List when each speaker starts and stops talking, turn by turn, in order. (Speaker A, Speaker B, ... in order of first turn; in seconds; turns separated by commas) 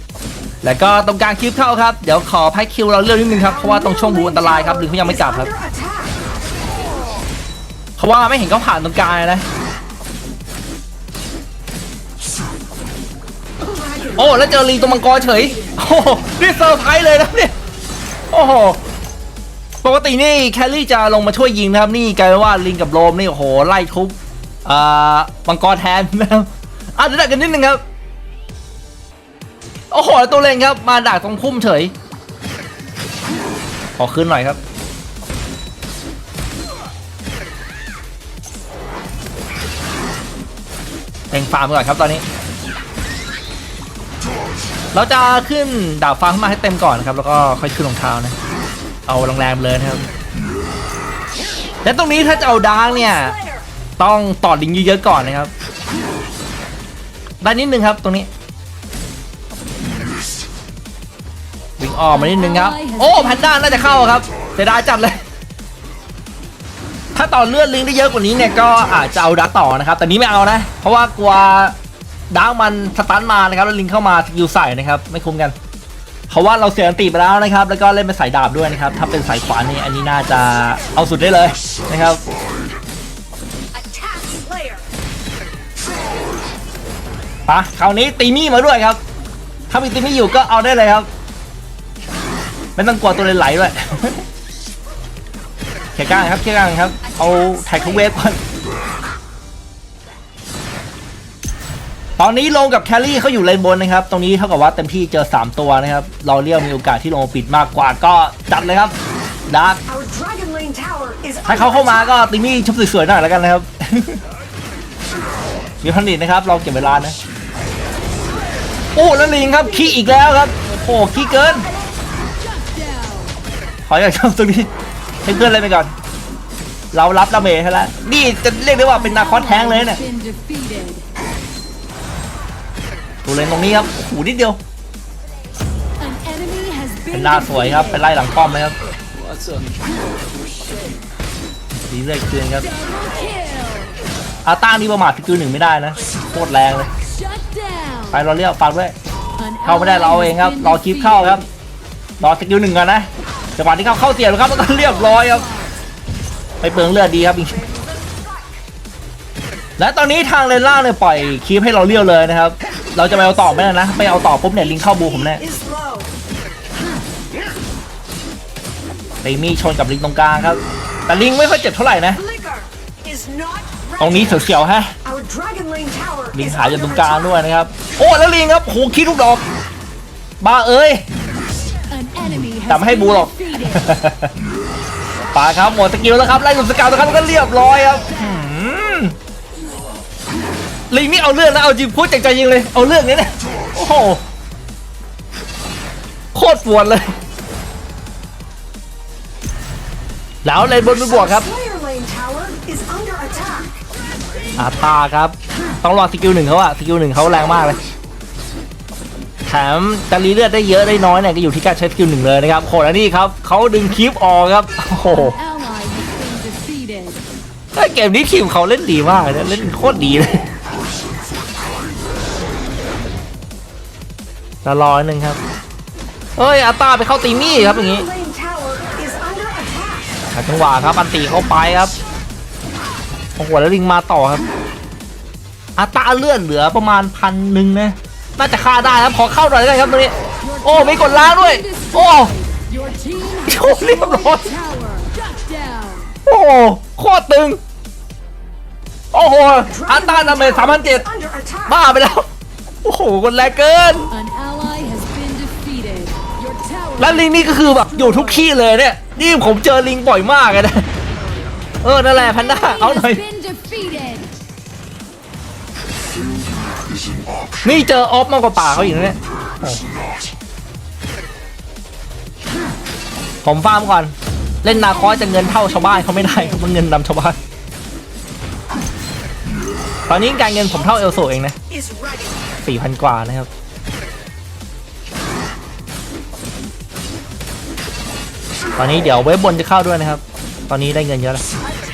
Speaker A: 0.6-5.5, Speaker B: 5.6-6.1, Speaker A: 8.0-9.4, Speaker A: 14.1-17.5, Speaker A: 18.3-18.8, Speaker A: 19.8-27.8, Speaker A: 29.9-31.9, Speaker A: 34.0-34.6, Speaker A: 41.3-42.2, Speaker A: 44.9-48.4, Speaker A: 49.1-50.0, Speaker A: 51.8-53.4, Speaker A: 54.0-55.5, Speaker A: 57.4-58.3, Speaker A: 61.8-65.2, Speaker A: 67.1-71.8, Speaker A: 72.3-75.5, Speaker A: 76.3-82.2, Speaker B: 83.9-84.8, Speaker A: 87.5-89.0, Speaker A: 89.7-91.1, Speaker A: 92.8-94.2, Speaker A: 95.9-98.4, Speaker A: 102.2-108.9, Speaker A: 109.5-109.8, Speaker B: 110.0-111.4, Speaker A: 111.4-114.2, Speaker A: 115.8-117.2, Speaker A: 118.9-121.7, Speaker C: 122.6-123.3, Speaker A: 123.8-124.7, Speaker A: 125.2-125.9, Speaker A: 126.9-130.0, Speaker C: 129.4-131.0, Speaker A: 133.2-134.6, Speaker C: 136.0-137.1, Speaker A: 137.1-138.7, Speaker A: 141.9-142.7, Speaker C: 142.8-143.9, Speaker A: 144.4-146.9, Speaker C: 147.3-148.0, Speaker A: 148.1-148.9, Speaker C: 149.4-150.5, Speaker A: 149.6-151.4, Speaker A: 152.2-155.5, Speaker A: 156.6-157.7, Speaker B: 157.8-158.1, Speaker A: 159.8-165.4, Speaker B: 165.5-166.1, Speaker A: 169.2-172.2, Speaker B: 172.4-173.9, Speaker A: 174.0-174.9, Speaker B: 175.1-176.3, Speaker A: 176.3-179.4, Speaker A: 180.4-181.0, Speaker C: 181.9-183.4, Speaker A: 182.2-184.3, Speaker A: 185.3-189.1, Speaker A: 190.9-194.2, Speaker A: 196.3-197.1, Speaker A: 200.4-201.5, Speaker B: 201.5-203.7, Speaker A: 204.6-207.8, Speaker A: 209.4-215.4, Speaker C: 215.4-217.2, Speaker A: 217.7-220.5, Speaker A: 224.6-225.4, Speaker A: 226.4-228.1, Speaker B: 228.1-230.0, Speaker A: 230.3-231.9, Speaker A: 233.3-234.4, Speaker A: 235.8-242.3, Speaker C: 241.0-246.1, Speaker A: 243.4-244.6, Speaker A: 246.2-247.6, Speaker A: 249.1-251.1, Speaker B: 251.2-251.5, Speaker A: 251.7-252.3, Speaker A: 252.8-254.1, Speaker C: 254.1-257.0, Speaker A: 257.0-260.9, Speaker A: 261.8-263.2, Speaker C: 262.6-264.3, Speaker A: 267.6-269.8, Speaker A: 273.4-277.4, Speaker A: 280.1-281.6, Speaker B: 281.9-282.2, Speaker A: 282.6-283.5, Speaker A: 288.8-291.4